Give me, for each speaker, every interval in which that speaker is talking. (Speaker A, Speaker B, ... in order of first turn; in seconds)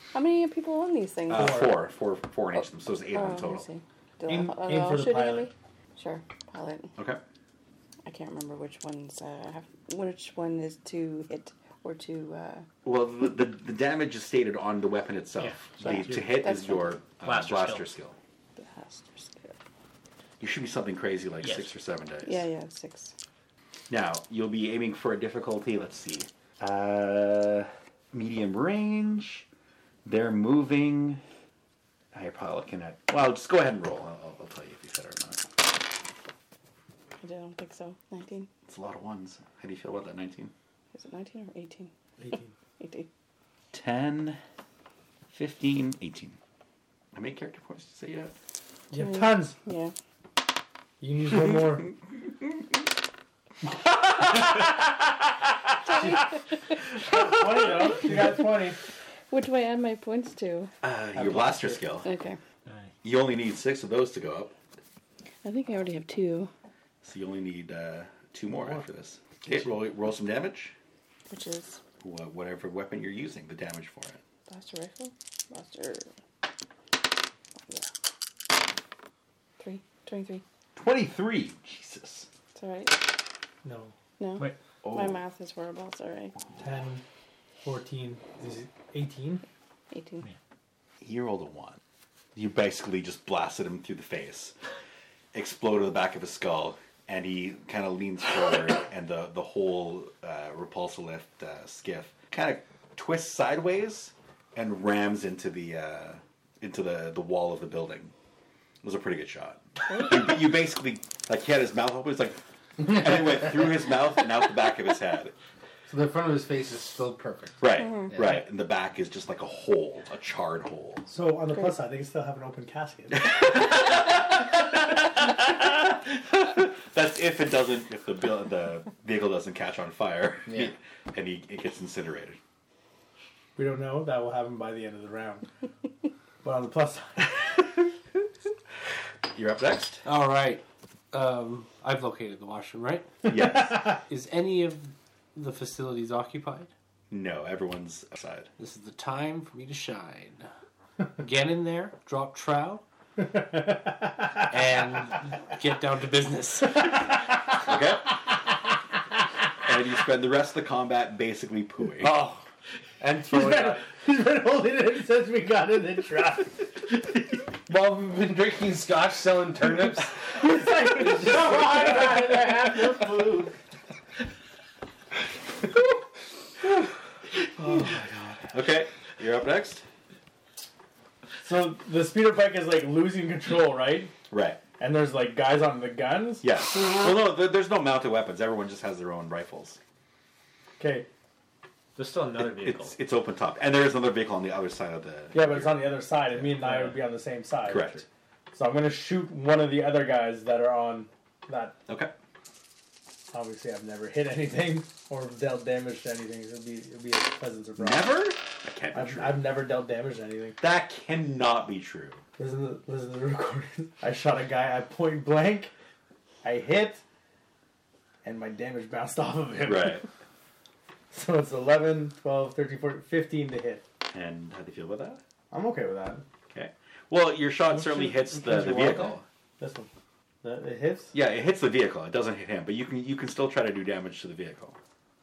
Speaker A: 0.1-1.7, 2.5-6.9, 8.0-12.7, 15.9-17.0, 18.6-19.6, 22.2-23.1, 37.2-38.5, 40.9-41.9, 42.8-43.1, 49.0-49.9, 55.8-56.5, 57.6-58.4, 59.3-60.7, 62.0-62.4, 65.4-66.5, 71.3-71.8, 74.5-76.1, 79.6-80.4, 82.5-83.0, 84.2-86.3, 89.9-90.2, 117.8-118.1
Speaker B: 1.3-3.6, 12.8-18.1, 20.4-22.4, 23.9-29.4, 30.0-31.2, 32.1-35.4, 38.7-40.5, 43.7-44.4, 45.3-46.4, 47.1-48.3, 54.3-54.7, 60.8-62.0, 63.0-64.5, 67.0-70.7, 72.0-74.2, 80.8-82.3, 84.8-85.2, 91.0-91.8, 92.3-94.5, 95.3-108.1, 108.8-115.3, 117.6-121.0, 123.2-132.4, 139.3-140.0, 143.3-143.9, 147.1-148.5, 157.5-158.2, 159.6-162.2, 177.4-179.8, 184.3-184.6, 186.4-189.8, 192.4-197.0, 197.7-198.0, 201.9-202.1, 207.8-209.4, 210.6-212.2, 219.7-220.0, 224.1-225.2, 226.5-229.2, 231.1-234.8
Speaker C: 1.3-1.7, 4.3-5.5, 42.2-42.5, 48.9-49.5, 51.0-51.9, 57.0-58.8, 61.1-61.8, 68.5-68.8, 69.5-69.7, 83.6-84.5, 86.6-87.0, 87.6-89.4, 121.0-123.3, 133.6-135.4, 136.4-137.4, 153.2-154.3, 163.3-166.6, 170.3-172.5, 181.4-184.1, 184.8-186.4, 190.8-191.1, 195.3-201.8, 203.3-208.2, 208.9-210.6, 212.4-215.7, 216.4-217.0, 218.2-220.1, 221.1-223.8, 225.5-226.2, 229.6-229.9, 230.4-231.1
Speaker D: 15.4-16.4, 17.2-17.9, 21.4-21.7, 62.6-62.9, 191.9-192.9
Speaker E: 115.9-118.4, 130.4-130.7, 167.7-170.2, 171.9-173.3, 228.3-229.2
Speaker F: 140.0-146.7, 148.6-150.4, 151.2-152.8, 154.5-157.2, 162.0-162.4, 163.0-163.8